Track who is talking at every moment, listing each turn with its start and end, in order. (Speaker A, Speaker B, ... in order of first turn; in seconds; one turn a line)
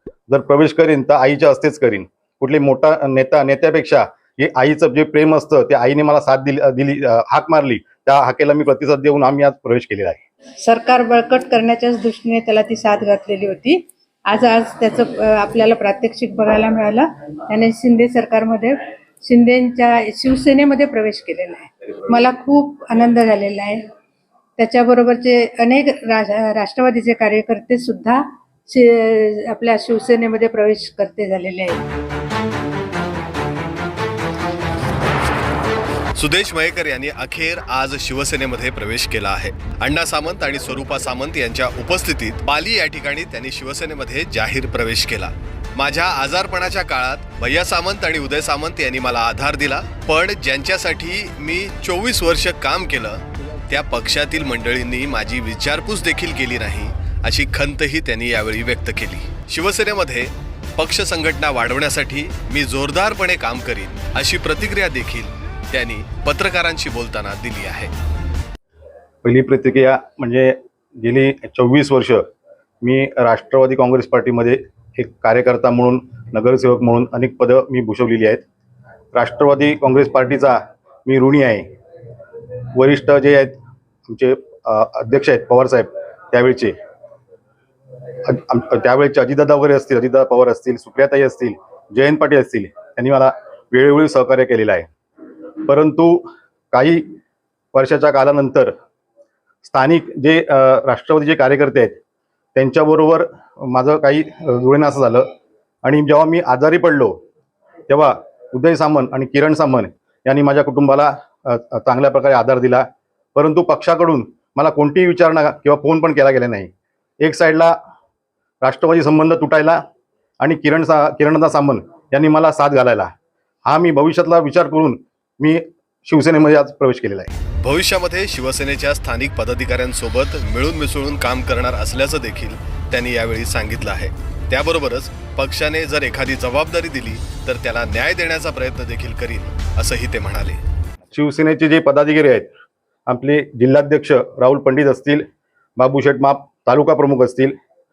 Speaker A: 0.3-10.2
Speaker B: 10.6-23.8
Speaker B: 24.6-31.8
Speaker C: 36.2-67.9
Speaker A: 69.2-72.2
Speaker A: 72.8-78.4
Speaker A: 79.1-81.7
Speaker A: 82.7-86.7
Speaker A: 88.2-94.9
Speaker A: 95.7-97.1
Speaker A: 97.7-98.7
Speaker A: 99.6-102.0
Speaker A: 102.5-105.3
Speaker A: 105.8-107.2
Speaker A: 107.9-117.7
Speaker A: 118.6-119.8
Speaker A: 120.4-123.1
Speaker A: 123.7-127.3
Speaker C: 127.6-140.6
Speaker A: 141.1-142.5
Speaker A: 143.1-145.2
Speaker A: 145.8-147.6